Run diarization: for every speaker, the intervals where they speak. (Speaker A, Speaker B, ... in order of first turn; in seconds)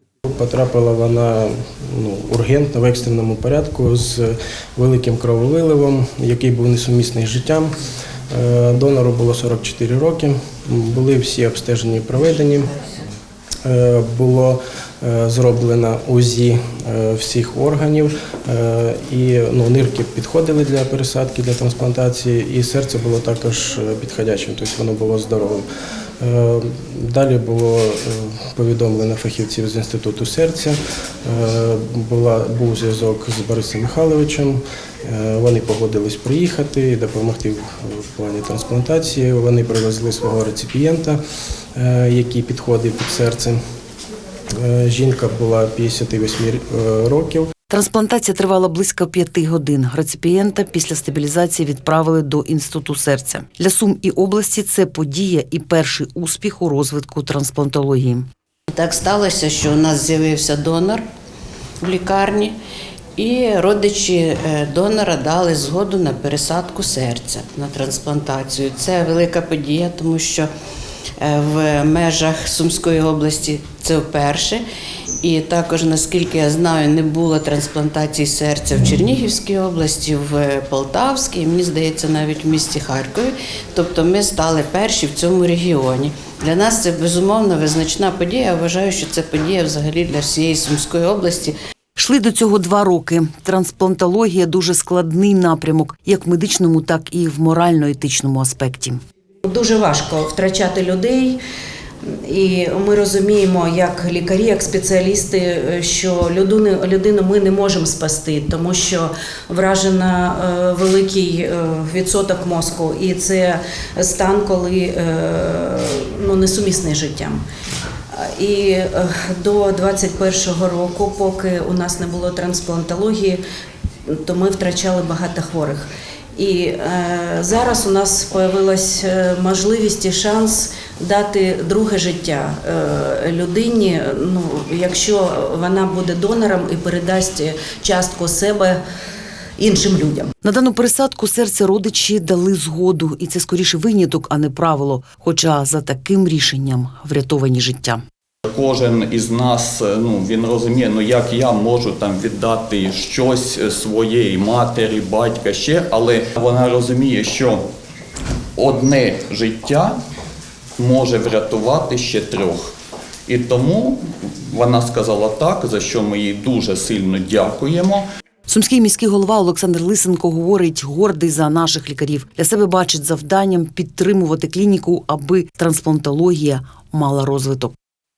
Speaker A: 0.3-7.7, 8.3-12.7, 13.6-25.6, 26.2-41.2, 41.8-43.6, 44.6-47.5
Speaker B: 47.7-58.3, 92.0-99.0, 140.4-148.0, 168.5-177.8
Speaker C: 58.8-61.0, 61.8-62.5, 63.2-70.5, 71.3-74.6, 75.2-91.5
Speaker D: 99.5-101.4, 102.1-117.4, 118.1-123.4, 124.1-138.8, 139.6-140.3
Speaker E: 148.5-157.6, 158.6-160.0, 160.8-162.8, 163.3-168.1